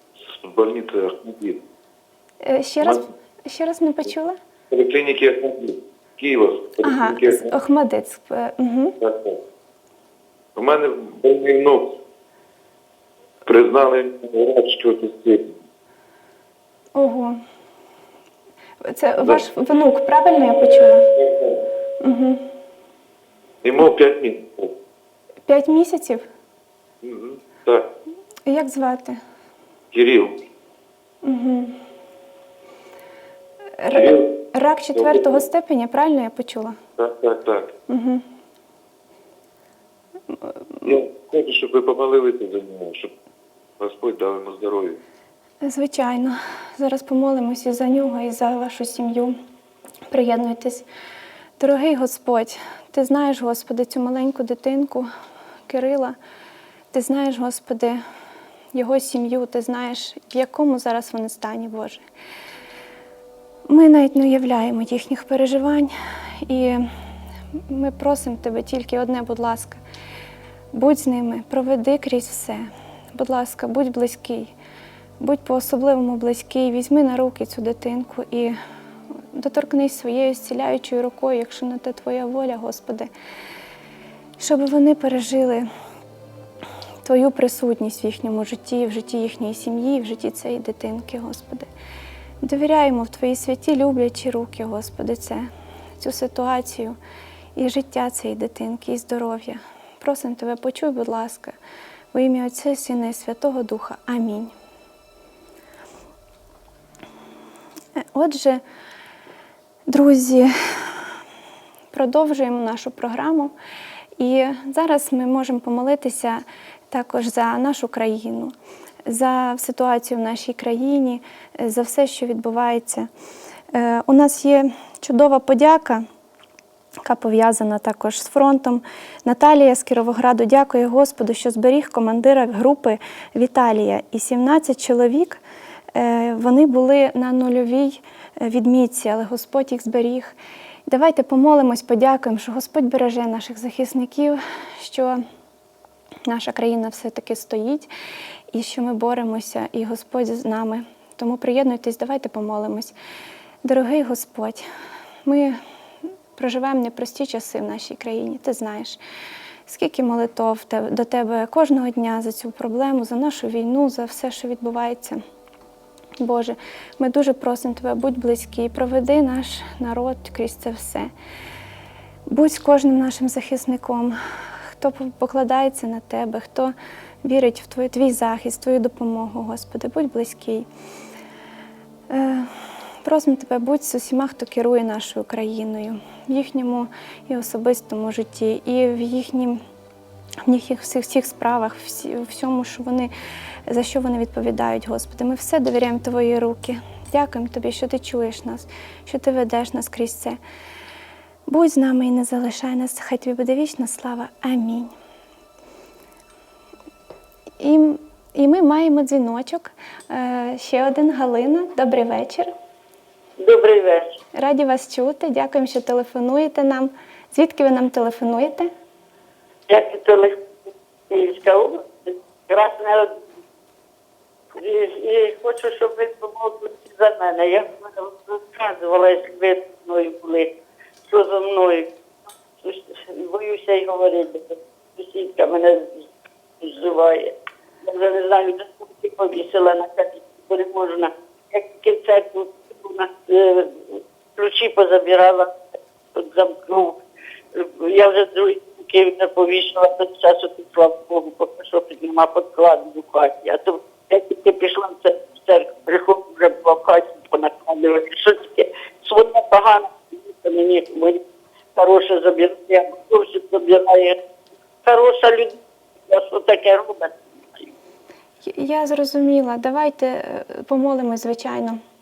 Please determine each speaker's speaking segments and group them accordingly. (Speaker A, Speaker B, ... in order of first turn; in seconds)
Speaker A: 0.2-1.6, 4.7-7.5, 9.0-9.4, 10.6-12.0, 13.4-15.6, 21.1-21.6, 23.6-24.7, 27.0-27.9, 29.9-30.4, 33.9-34.4, 34.9-35.4, 37.0-37.8, 40.8-43.1, 43.8-45.0
Speaker B: 2.4-4.4, 6.8-9.0, 16.9-17.4, 18.8-21.1, 22.0-22.4, 25.5-26.2, 28.4-29.2, 31.2-31.8, 33.8-36.8, 37.9-38.2, 45.6-49.4, 50.1-50.9, 51.6-55.1, 55.7-56.1, 56.9-58.0, 58.7-62.0, 63.7-66.9, 67.7-69.8, 70.7-74.5, 75.2-78.6, 79.3-83.1, 84.4-85.7, 87.0-91.7, 92.4-95.5, 96.0-97.0, 97.5-101.5, 102.1-104.5, 108.0-108.6, 109.9-111.1, 111.9-113.5, 114.2-118.5, 119.0-123.1, 123.7-126.0, 127.0-135.4, 135.9-140.3, 140.9-145.2, 146.2-147.9, 148.5-152.9, 153.6-154.6, 155.2-155.6, 156.3-159.0, 159.7-165.2, 166.2-171.1, 172.3-174.2, 174.7-180.7, 182.1-189.6, 190.4-193.1, 193.7-200.4, 201.5-204.9, 207.6-212.5, 214.3-218.7, 268.4-271.8
Speaker C: 213.4-214.2, 219.7-223.2, 224.5-230.5, 231.1-231.9, 232.6-236.0, 236.6-237.3, 237.8-245.6, 246.1-247.0, 247.5-261.2, 261.8-264.2, 264.8-267.7